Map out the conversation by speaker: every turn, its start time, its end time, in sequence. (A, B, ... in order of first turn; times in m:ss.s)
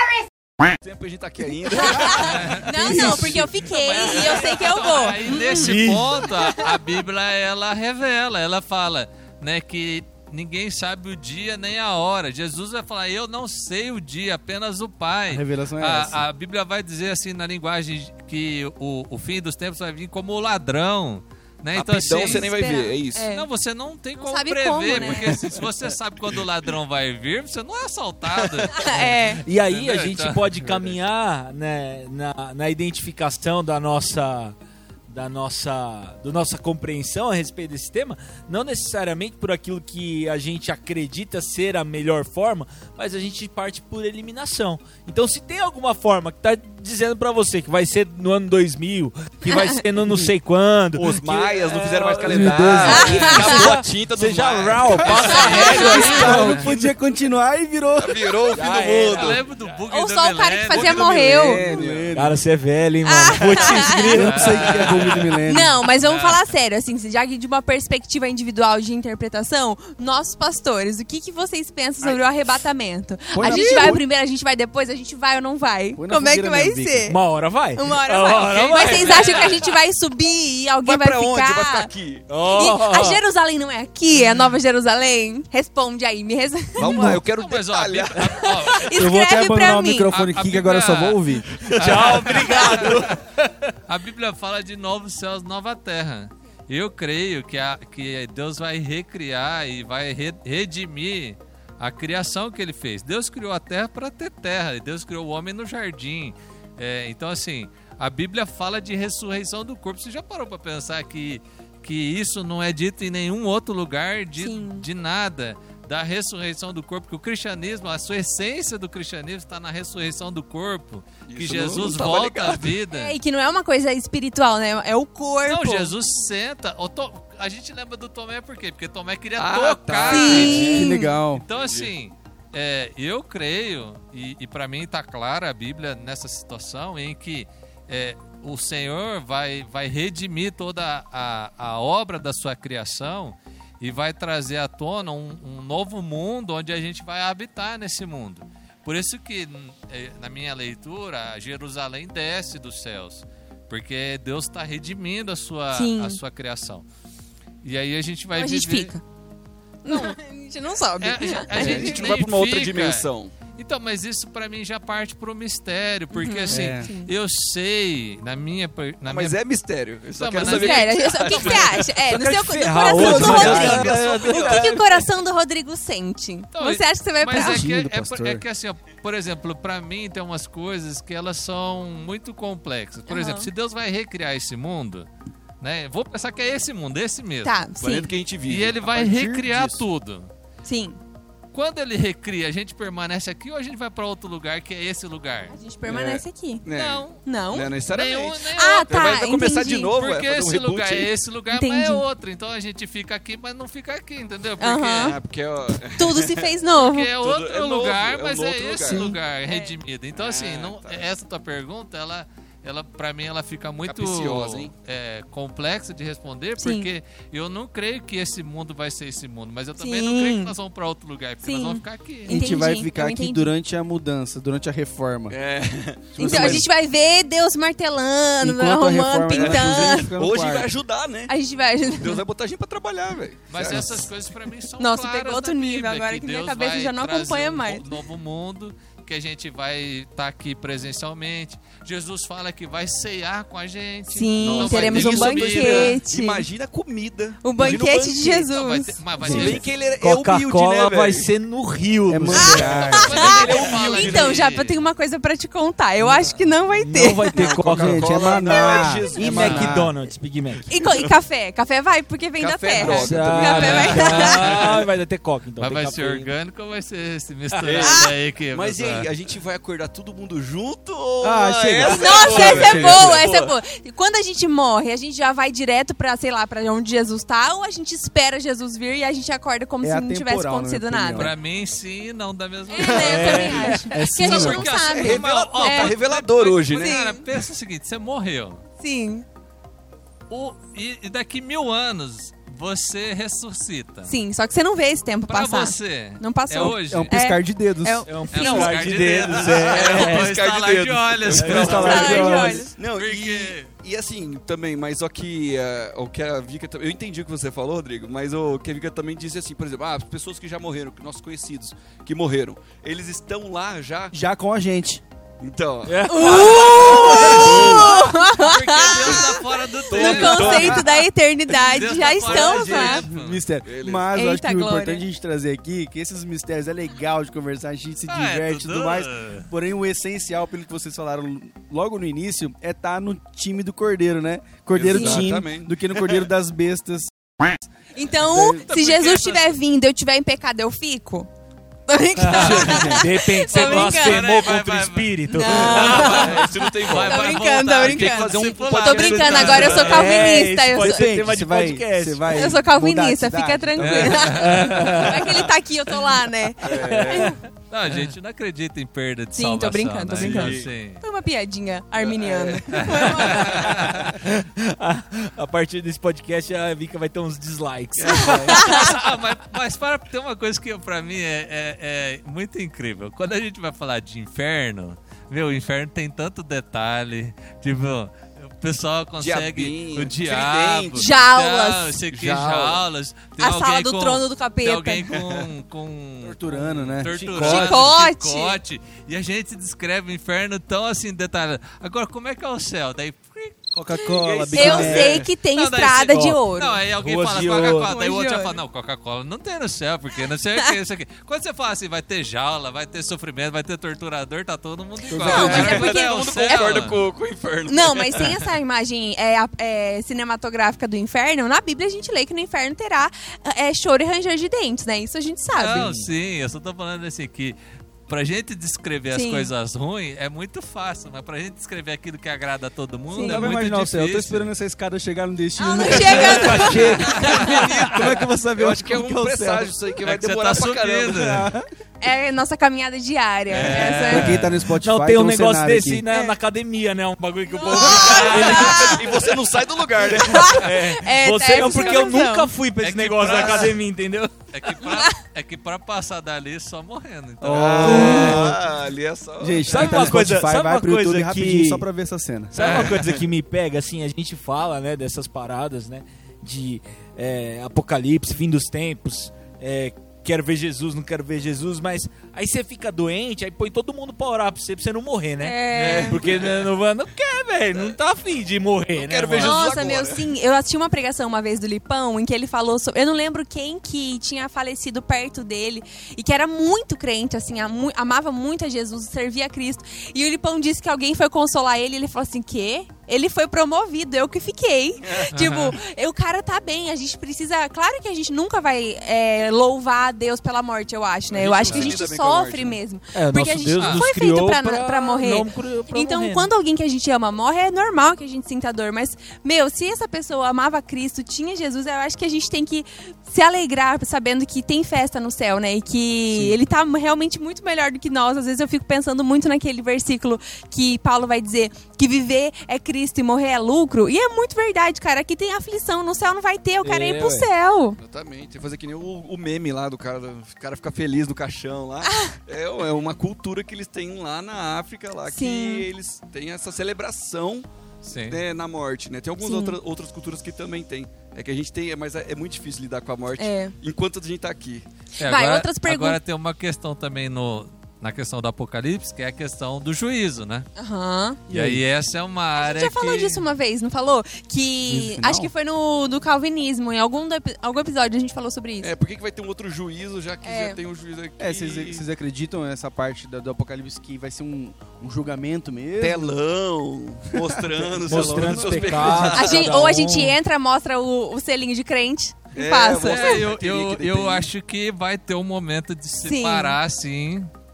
0:00.8-0:03.4 A
0:01.7-0:06.7 B
0:02.2-0:22.5 C
0:04.0-0:04.4 A
0:05.6-0:06.1 D
0:05.6-0:06.0 E
0:15.3-0:16.2 E
0:21.7-0:23.3 A
0:22.0-0:23.4 B
0:23.2-0:28.9 C
0:24.2-0:25.5 B
0:28.7-0:29.4 B
0:28.9-0:34.5 D
0:29.7-0:30.6 C
0:35.1-0:56.8 D
0:50.0-0:50.3 E
0:50.9-0:56.9 A
0:52.2-0:53.5 E
0:52.8-0:53.7 B
0:55.1-0:58.9 E
0:55.2-0:56.4 B
0:55.3-0:56.7 C
0:58.0-0:59.7 A
0:58.5-0:59.4 D
0:59.0-1:01.3 C
0:59.9-1:01.6 B
1:00.7-1:02.4 E
1:00.8-1:02.1 A
1:02.1-1:04.8 D
1:03.0-1:04.2 B
1:03.6-1:05.7 E
1:04.0-1:06.4 C
1:05.4-1:17.2 B
1:13.3-1:14.0 E
1:13.4-1:13.9 D
1:16.0-1:17.1 E
1:17.1-1:19.6 D
1:17.8-1:21.9 B
1:18.4-1:19.6 C
1:20.8-1:22.2 A
1:22.3-1:23.2 D
1:22.5-1:27.2 B
1:26.8-1:28.5 A
1:26.8-1:27.2 E
1:27.3-1:28.9 C
1:28.4-1:30.1 B
1:28.9-1:31.6 E
1:30.1-1:33.2 C
1:31.7-1:33.7 D
1:33.9-2:03.2 C
1:54.4-1:54.9 B
2:01.2-2:02.8 A
2:02.9-2:05.9 B
2:05.4-2:36.8 C
2:09.4-2:11.0 A
2:10.1-2:11.2 B
2:10.3-2:11.4 E
2:11.5-2:11.9 A
2:35.7-2:36.2 B
2:37.6-2:39.0 C
2:38.3-2:39.0 B
2:39.8-2:42.0 B
2:41.0-2:49.4 C
2:41.5-2:43.3 A
2:46.1-2:47.1 B
2:46.5-2:46.9 E
2:49.0-2:52.0 A
2:50.2-2:51.7 C
2:50.4-2:57.7 B
2:52.1-2:54.8 D
2:52.8-2:54.8 E
2:53.0-2:54.6 A
2:53.2-2:54.1 C
2:56.5-3:05.1 C
2:57.3-2:58.4 E
3:03.1-3:03.5 B
3:05.6-3:07.6 C
3:07.4-3:08.1 B
3:07.8-3:09.7 A
3:08.5-3:10.3 C
3:09.2-3:09.8 E
3:10.6-3:11.0 B
3:11.5-3:15.6 C
3:15.5-3:16.6 B
3:15.8-3:21.1 A
3:16.7-3:17.2 C
3:17.2-3:17.7 B
3:17.9-3:19.2 C
3:18.5-3:19.9 B
3:19.9-3:25.2 C
3:21.5-3:22.0 B
3:24.6-3:25.2 B
3:25.0-3:26.5 A
3:25.9-3:27.1 B
3:26.8-3:42.6 C
3:27.2-3:29.2 A
3:29.5-3:29.7 B
3:30.2-3:31.1 A
3:33.8-3:34.7 A
3:36.6-3:36.9 B
3:39.8-3:40.5 B
3:41.4-3:43.5 B
3:42.3-3:45.4 E
3:45.3-3:46.6 A
3:46.1-3:46.6 E
3:46.2-3:50.1 B
3:48.4-3:50.7 E
3:49.3-3:54.1 A
3:51.3-3:52.2 B
3:53.5-4:06.0 C
3:54.8-3:57.8 B
4:04.1-4:06.4 B
4:04.4-4:07.4 A
4:07.4-4:09.0 B
4:07.6-4:08.5 D
4:08.4-4:09.6 C
4:09.2-4:14.4 D
4:09.2-4:09.6 E
4:09.2-4:11.3 A
4:12.1-4:13.2 E
4:12.3-4:17.4 B
4:12.4-4:14.0 A
4:12.9-4:14.8 C
4:16.0-4:18.4 D
4:17.0-4:19.8 E
4:17.3-4:19.9 A
4:18.4-4:19.6 B
4:19.1-4:20.7 D
4:20.7-4:24.6 B
4:20.8-4:21.1 A
4:22.4-4:24.1 A
4:22.8-4:26.3 D
4:23.5-4:24.9 C
4:25.6-4:29.1 C
4:27.6-4:33.5 A
4:27.8-4:28.1 B
4:31.2-4:33.2 E
4:31.8-4:41.3 B
4:39.8-4:41.3 E
4:41.1-4:48.6 C
4:42.7-4:45.9 B
4:42.8-4:43.2 A
4:42.9-4:43.9 D
4:43.9-4:44.8 E
4:44.8-4:47.0 A
4:46.7-4:47.2 B
4:48.8-4:49.2 B
4:50.3-4:54.1 C
4:54.0-4:58.8 B
4:55.3-4:57.1 C
4:56.6-4:58.1 E
4:58.1-5:00.3 D
4:58.3-5:03.7 C
4:59.5-5:14.1 A
5:01.3-5:02.7 D
5:01.6-5:02.6 E
5:01.7-5:02.7 B
5:14.1-5:15.0 E
5:15.4-5:17.8 A
5:15.8-5:19.1 D
5:16.1-5:23.0 B
5:17.1-5:23.4 C
5:17.2-5:17.9 E
5:19.9-5:20.8 A
5:19.9-5:20.6 E
5:22.4-5:22.9 D
5:22.5-5:37.6 E
5:23.6-5:24.1 A
5:24.1-5:25.0 B
5:28.1-5:29.5 C
5:34.7-5:36.2 A
5:34.9-5:35.3 B
5:37.9-5:41.3 B
5:38.2-5:38.6 E
5:38.6-5:39.4 C
5:41.9-5:44.3 B
5:42.2-5:46.4 D
5:42.3-5:42.9 C
5:42.3-5:43.0 E
5:43.5-5:50.3 C
5:45.3-5:51.1 B
5:45.7-5:50.1 A
5:49.8-5:52.6 D
5:50.7-5:54.6 E
5:52.3-5:57.4 B
5:53.9-5:54.6 A
5:54.1-5:54.6 C
5:54.2-5:55.3 D
5:56.6-5:57.3 A
5:56.7-5:57.3 D
5:57.7-6:01.0 C
5:59.3-6:03.7 B
6:00.2-6:00.7 A
6:02.0-6:03.8 A
6:02.7-6:04.2 C
6:03.5-6:09.1 D
6:08.0-6:08.7 A
6:08.2-6:33.6 C
6:08.5-6:08.8 B
6:19.2-6:21.1 A
6:20.9-6:22.0 B
6:22.1-6:22.8 A
6:23.4-6:25.1 B
6:25.1-6:25.5 A
6:26.2-6:27.9 E
6:27.1-6:27.5 D
6:27.4-6:28.6 B
6:33.7-6:35.2 E
6:34.1-6:35.2 D
6:34.5-6:36.8 B
6:34.7-6:47.0 C
6:34.8-6:35.2 A
6:37.0-6:37.9 D
6:37.5-6:38.6 B
6:45.1-6:45.8 D
6:45.2-6:48.4 A
6:45.2-6:46.8 B
6:47.7-6:56.0 B
6:55.5-6:57.6 C
6:58.1-7:04.5 C
6:59.1-6:59.5 B
7:03.1-7:03.5 B
7:03.2-7:09.8 E
7:05.6-7:07.6 B
7:05.8-7:08.1 D
7:07.1-7:07.5 C
7:07.4-7:11.4 A
7:10.0-7:11.5 C
7:11.1-7:11.7 E
7:12.0-7:14.3 B
7:13.5-7:14.5 A
7:13.6-7:14.4 C
7:14.0-7:16.0 E
7:14.7-7:19.1 D
7:16.1-7:16.3 B
7:17.5-7:19.1 B
7:17.9-7:18.7 C
7:18.0-7:20.6 A
7:20.1-7:22.5 B
7:20.4-7:24.4 D
7:22.8-7:23.8 C
7:23.2-7:23.7 A
7:24.5-7:28.3 C
7:24.8-7:25.1 B
7:27.4-7:28.6 D
7:27.5-7:30.1 A
7:27.5-7:28.6 E
7:29.4-7:32.6 E
7:29.7-7:31.8 D
7:32.5-7:49.7 D
7:32.6-7:33.2 A
7:45.4-7:46.2 B
7:45.7-7:46.7 A
7:48.9-7:50.3 A
7:49.4-8:38.0 B
8:05.3-8:05.8 C
8:11.3-8:12.8 A
8:13.1-8:16.5 D
8:13.7-8:14.0 C
8:26.3-8:26.6 D
8:36.8-8:37.5 D
8:38.0-8:54.8 A
8:42.0-8:42.4 B
8:45.3-8:45.9 B
8:48.0-8:48.4 C
8:49.4-8:49.8 B
8:53.4-8:53.7 B
8:55.2-8:56.2 B
8:55.2-9:00.7 C
9:00.8-9:01.4 B
9:01.5-9:01.8 E
9:01.5-9:03.5 C
9:02.5-9:08.9 B
9:04.8-9:05.5 E
9:08.8-9:12.0 A
9:10.4-9:10.8 B
9:11.4-9:16.4 E
9:16.0-9:19.8 A
9:17.3-9:19.3 E
9:18.0-9:20.4 D
9:19.3-9:23.5 B
9:22.5-9:24.5 A
9:23.0-9:27.5 C
9:26.2-9:26.8 B